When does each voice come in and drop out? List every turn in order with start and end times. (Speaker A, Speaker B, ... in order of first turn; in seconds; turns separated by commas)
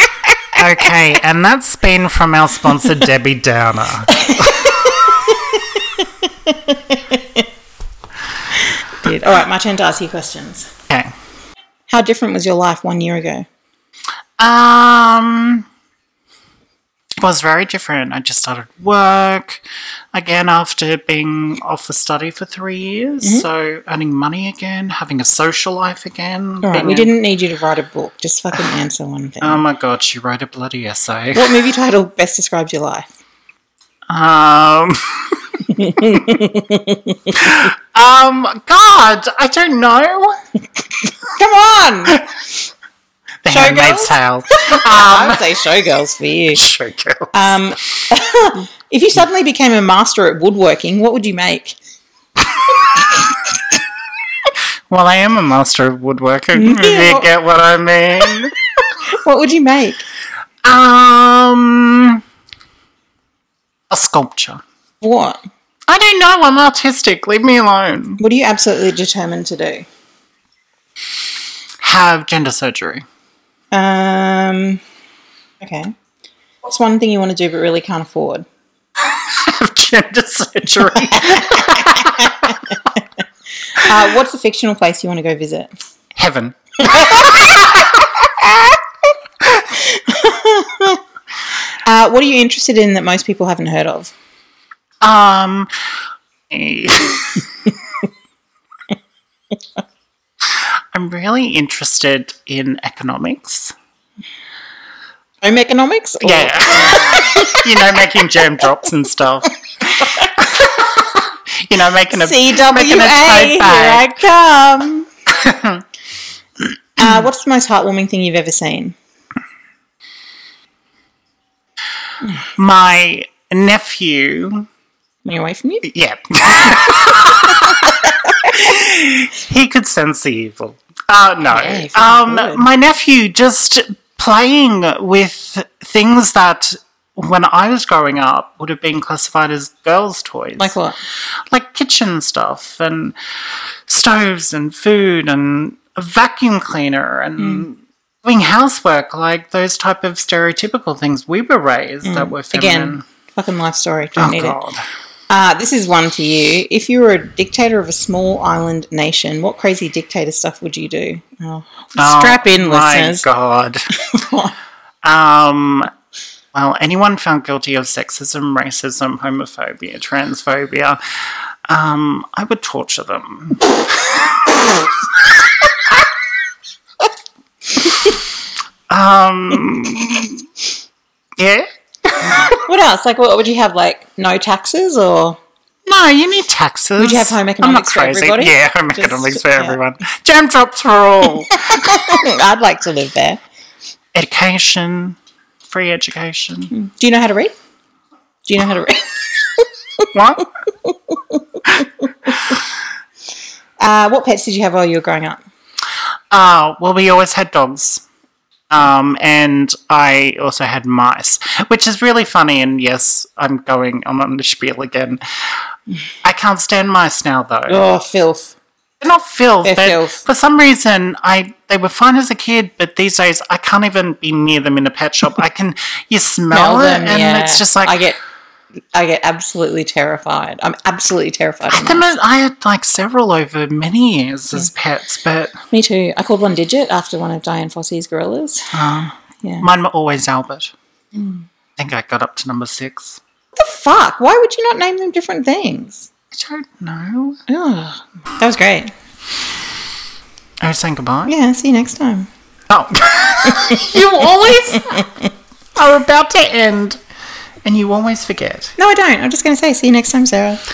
Speaker A: 0.5-4.7, Speaker B: 4.2-7.4, Speaker B: 9.0-10.7, Speaker B: 11.9-13.4, Speaker A: 14.4-15.7, Speaker A: 17.2-19.6, Speaker A: 20.1-27.1, Speaker B: 26.6-29.6, Speaker A: 29.4-31.6, Speaker B: 31.3-33.1, Speaker A: 34.1-35.4, Speaker B: 35.6-37.4, Speaker A: 37.3-40.4, Speaker B: 41.4-42.2, Speaker A: 43.4-45.5, Speaker B: 43.5-46.6, Speaker A: 46.5-47.6, Speaker B: 47.3-51.8, Speaker A: 52.5-53.2, Speaker A: 54.9-58.5, Speaker B: 56.5-57.3, Speaker B: 59.1-60.0, Speaker A: 60.6-62.2, Speaker A: 63.9-64.6, Speaker B: 65.0-65.4, Speaker A: 65.9-68.2, Speaker B: 68.2-69.9, Speaker A: 71.8-73.0, Speaker B: 73.7-74.8, Speaker B: 75.6-75.9, Speaker B: 76.6-78.4, Speaker A: 79.0-82.6, Speaker B: 81.2-83.0, Speaker B: 83.7-85.8, Speaker A: 86.2-88.2, Speaker B: 86.8-87.6, Speaker B: 88.2-88.8, Speaker B: 89.5-91.0, Speaker B: 91.8-94.1, Speaker A: 95.0-95.7, Speaker A: 96.5-97.7, Speaker A: 100.5-103.7, Speaker B: 105.4-108.0, Speaker A: 106.2-114.0, Speaker B: 110.0-110.3, Speaker B: 112.1-115.1, Speaker A: 115.3-115.8, Speaker B: 117.0-118.9, Speaker A: 122.5-124.7, Speaker B: 125.2-125.8, Speaker A: 125.8-140.8, Speaker B: 127.5-128.5, Speaker B: 131.4-132.7, Speaker B: 140.6-141.0, Speaker A: 141.5-143.1, Speaker A: 143.9-153.0, Speaker B: 147.4-147.6, Speaker B: 152.0-154.6, Speaker A: 154.2-154.8, Speaker B: 155.3-163.2, Speaker A: 162.0-163.9, Speaker B: 164.0-164.5, Speaker A: 165.0-165.9, Speaker A: 166.5-175.1, Speaker A: 177.8-178.2, Speaker A: 178.9-180.4, Speaker A: 181.4-182.6, Speaker B: 182.4-185.4, Speaker A: 185.8-192.0, Speaker B: 187.0-189.8, Speaker B: 191.5-193.4, Speaker A: 194.1-196.7, Speaker B: 196.7-197.5, Speaker B: 198.4-199.7, Speaker A: 200.1-200.5, Speaker B: 200.8-202.4, Speaker B: 203.8-205.4, Speaker A: 206.3-208.0, Speaker A: 208.7-215.2, Speaker A: 216.2-217.9, Speaker B: 217.7-218.6, Speaker A: 219.0-228.1, Speaker B: 219.6-220.2, Speaker B: 226.5-228.2, Speaker B: 228.9-232.1, Speaker A: 231.7-235.6, Speaker B: 235.7-238.7, Speaker A: 238.7-240.7, Speaker B: 239.4-239.7, Speaker B: 241.1-241.4, Speaker A: 241.8-243.2, Speaker B: 243.5-246.1, Speaker A: 246.3-247.4, Speaker B: 247.5-248.9, Speaker A: 250.6-251.3, Speaker B: 251.3-252.3, Speaker A: 252.7-257.0, Speaker A: 257.6-258.7, Speaker B: 258.8-260.6